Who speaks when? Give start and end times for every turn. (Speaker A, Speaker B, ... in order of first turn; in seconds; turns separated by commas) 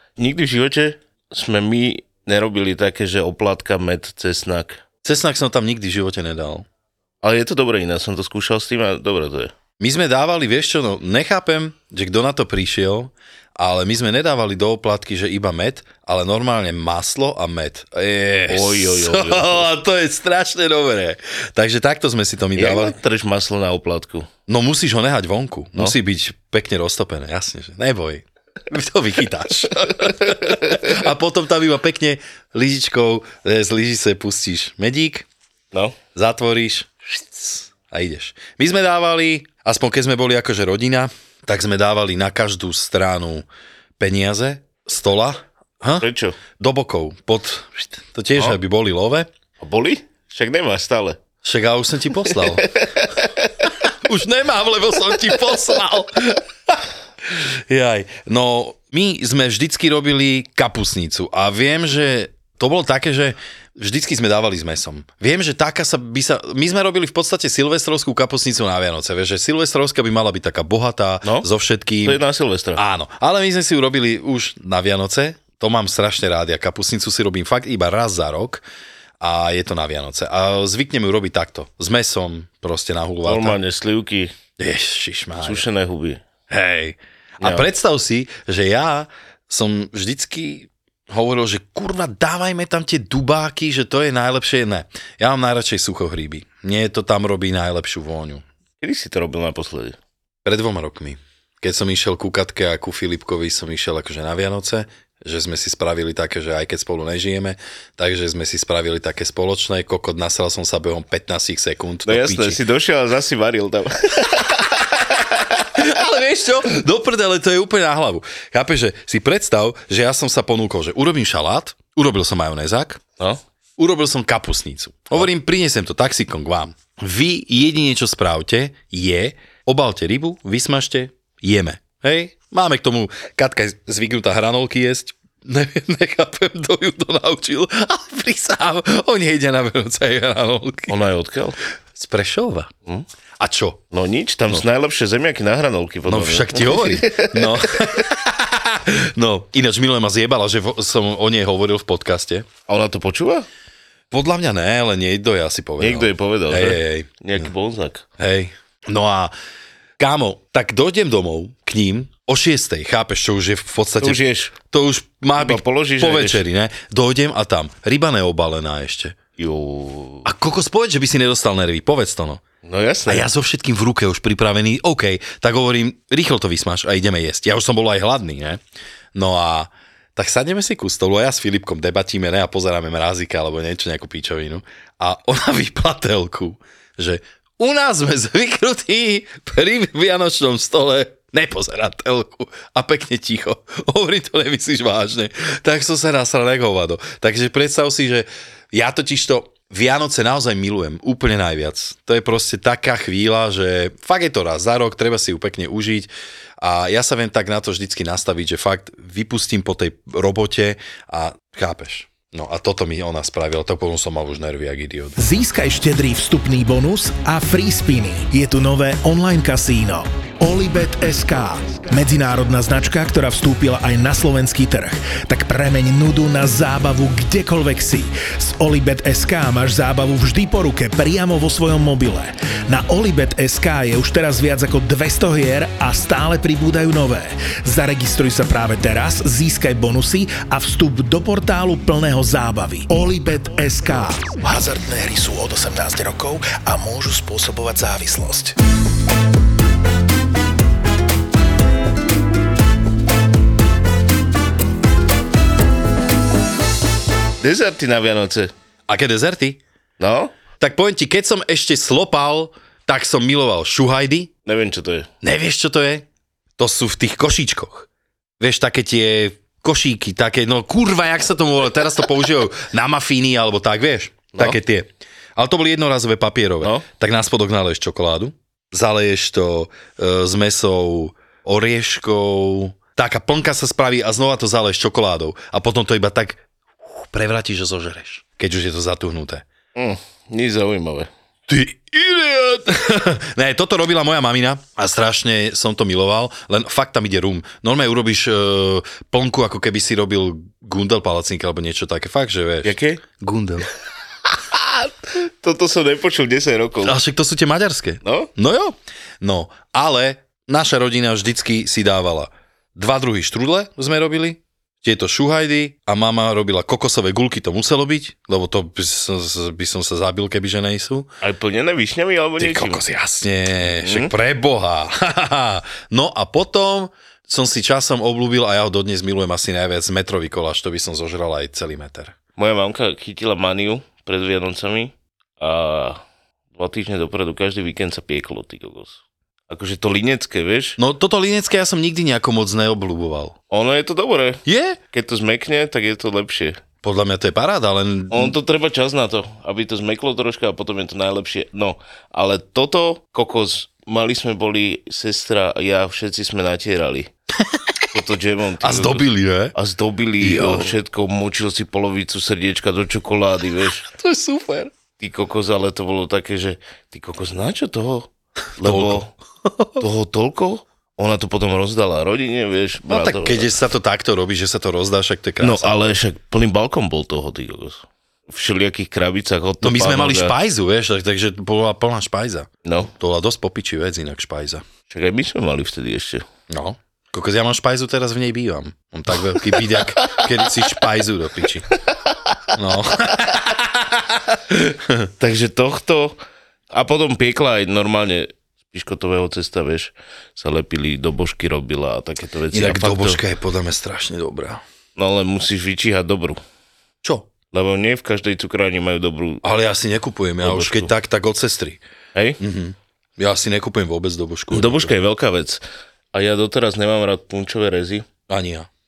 Speaker A: 0.2-4.8, Speaker B: 5.0-6.7, Speaker A: 7.2-9.5, Speaker B: 9.8-23.0, Speaker A: 18.5-19.7, Speaker A: 22.6-24.3, Speaker B: 24.5-35.3, Speaker A: 30.1-30.9, Speaker B: 36.1-43.5, Speaker B: 44.0-49.3, Speaker A: 46.0-46.4, Speaker A: 49.6-51.2, Speaker B: 51.4-52.7, Speaker A: 52.3-53.7, Speaker B: 53.8-72.2, Speaker A: 72.0-72.8, Speaker B: 72.8-78.6, Speaker B: 79.2-83.6, Speaker A: 83.2-84.3, Speaker B: 84.6-85.7, Speaker A: 85.4-86.2, Speaker B: 86.5-98.4, Speaker A: 87.4-87.7, Speaker A: 98.8-100.0, Speaker B: 100.4-112.6, Speaker A: 112.0-115.8, Speaker B: 115.6-123.0, Speaker B: 123.8-140.9, Speaker A: 140.9-141.6, Speaker B: 141.9-142.7, Speaker B: 143.4-143.8, Speaker A: 143.9-148.0, Speaker B: 146.1-152.5, Speaker A: 152.7-153.5, Speaker B: 154.1-157.5, Speaker A: 155.8-158.1, Speaker B: 158.2-159.3, Speaker B: 160.0-169.2, Speaker A: 164.0-164.5, Speaker A: 165.4-166.4, Speaker A: 169.4-170.3, Speaker B: 170.2-172.4, Speaker A: 172.6-173.3, Speaker B: 173.1-178.6, Speaker B: 179.1-215.2, Speaker C: 215.2-248.5, Speaker A: 257.4-258.5, Speaker B: 258.9-259.6, Speaker A: 260.0-260.3, Speaker B: 260.6-264.3, Speaker A: 264.4-265.1, Speaker B: 265.2-266.1, Speaker B: 266.6-267.9, Speaker B: 268.4-289.4, Speaker A: 289.8-291.1, Speaker B: 291.5-303.7, Speaker A: 302.6-303.0, Speaker A: 304.5-307.0, Speaker B: 306.8-321.1, Speaker A: 308.0-308.3, Speaker A: 321.2-322.8, Speaker B: 322.4-332.1, Speaker A: 323.6-324.1, Speaker A: 332.4-336.0, Speaker A: 336.5-340.8, Speaker B: 340.8-343.4, Speaker A: 343.5-346.6, Speaker B: 344.4-344.8, Speaker B: 346.8-348.4, Speaker A: 348.1-357.1, Speaker B: 357.4-357.8, Speaker A: 357.9-363.9, Speaker B: 358.6-359.5, Speaker B: 360.2-360.8, Speaker B: 363.8-364.7, Speaker A: 365.0-369.1, Speaker B: 368.6-369.8, Speaker A: 369.8-373.5, Speaker B: 372.9-375.9, Speaker A: 375.4-380.4, Speaker B: 379.6-384.6, Speaker A: 382.6-382.9, Speaker A: 384.9-386.2, Speaker B: 386.5-391.7, Speaker A: 390.0-390.3, Speaker B: 392.5-395.1, Speaker A: 395.2-396.2, Speaker A: 396.7-403.2, Speaker B: 402.5-404.6, Speaker A: 404.9-406.4, Speaker B: 407.0-407.3, Speaker A: 407.5-409.4, Speaker B: 409.4-411.8, Speaker A: 410.4-410.9, Speaker B: 412.4-414.9, Speaker A: 414.5-415.6, Speaker A: 416.1-418.1, Speaker B: 418.3-418.7